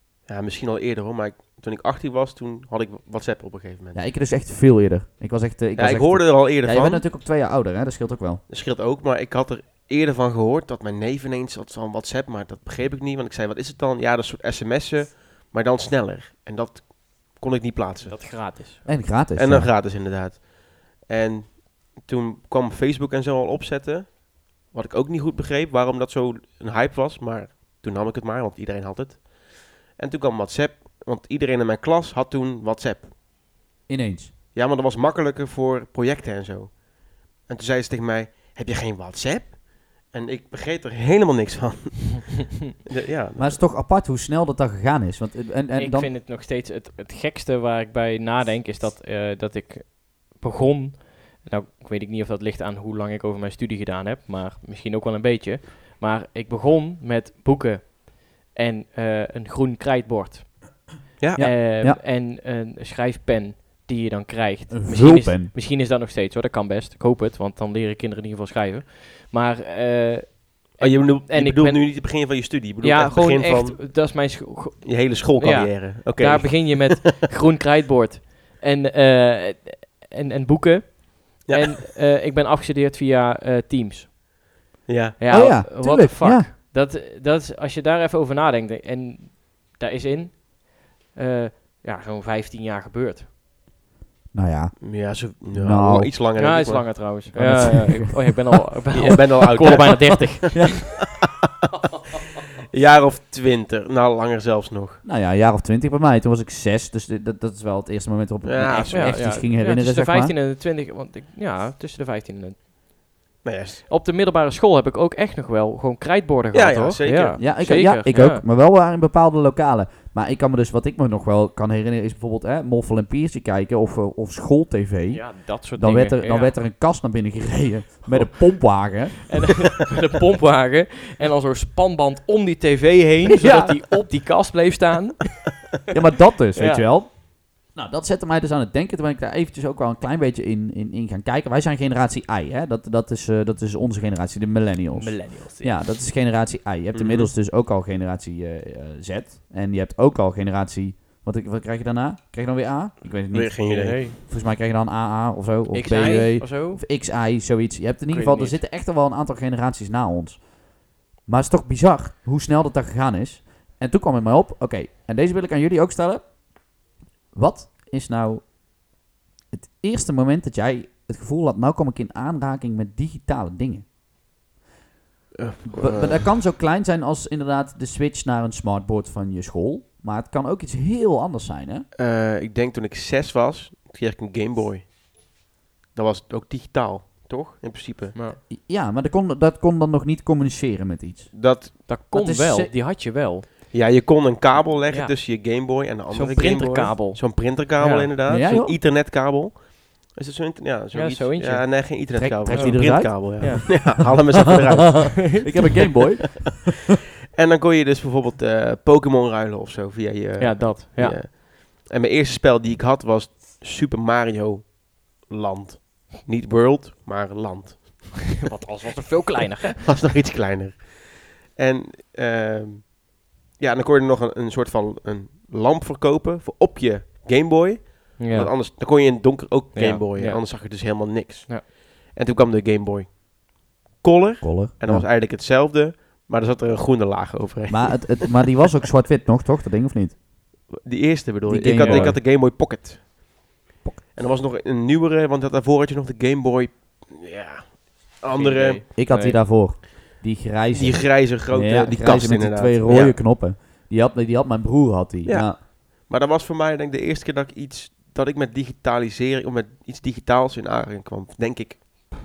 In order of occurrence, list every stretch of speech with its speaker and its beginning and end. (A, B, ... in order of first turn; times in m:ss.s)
0:00.2-0:04.0 A
0:03.9-0:08.4 B
0:05.8-0:07.0 A
0:08.5-0:18.2 A
0:18.1-0:18.8 C
0:18.7-0:33.1 A
0:18.8-0:19.7 B
0:33.9-0:34.3 B
0:34.5-0:43.6 A
0:43.4-0:46.1 B
0:45.8-1:00.8 C
1:01.2-1:01.5 A
1:01.4-1:02.0 B
1:01.4-1:12.3 C
1:04.7-1:05.5 B
1:10.8-1:13.8 A
1:12.8-1:24.2 C
1:14.8-1:17.1 A
1:21.5-1:21.8 A
1:24.9-1:25.2 A
1:25.2-1:33.3 C
1:25.3-1:26.5 B
1:34.3-1:36.1 B
1:34.8-1:37.1 A
1:36.4-1:41.0 C
1:37.3-1:38.4 B
1:38.9-1:40.8 A
1:39.6-1:40.0 B
1:42.7-1:45.0 A
1:45.0-1:50.4 B
1:48.4-1:49.3 A
1:48.9-1:53.2 C
1:53.4-1:53.8 A
1:53.9-1:58.4 C
1:56.5-1:57.5 A
1:57.4-2:09.7 B
2:05.1-2:06.6 C
2:09.3-2:15.6 C
2:13.2-2:13.8 B
2:15.9-2:40.7 B
2:16.6-2:16.8 C
2:24.9-2:25.8 C
2:26.9-2:27.3 A
2:33.3-2:34.0 A
2:33.7-2:34.2 C
2:35.7-2:36.8 C
2:38.1-2:38.6 C
2:41.2-2:46.4 B
2:47.3-2:48.6 B
2:49.5-2:53.8 B
2:55.4-2:56.2 A
2:55.6-3:01.9 B
3:01.9-3:04.9 A
3:05.9-3:08.2 A
3:08.4-3:12.7 B
3:11.3-3:11.9 A
3:11.9-3:13.5 C
3:13.7-3:25.6 A
3:14.9-3:15.4 C
3:16.1-3:18.1 C
3:18.3-3:18.8 B
3:20.9-3:21.9 C
3:22.1-3:23.9 B
3:22.5-3:24.2 C
3:25.0-3:26.7 B
3:25.3-3:25.9 C
3:27.4-3:38.4 A
3:30.4-3:31.2 C
3:38.4-3:39.8 C
3:39.7-3:53.2 A
3:48.2-3:48.5 C
3:49.7-3:51.6 C
3:53.9-3:58.4 A
3:54.4-3:55.1 B
3:57.7-4:00.2 B
4:00.7-4:03.1 A
4:01.5-4:02.2 B
4:01.7-4:02.1 C
4:04.1-4:08.8 A
4:08.3-4:09.4 C
4:09.0-4:15.6 B
4:10.7-4:13.2 A
4:15.2-4:22.1 A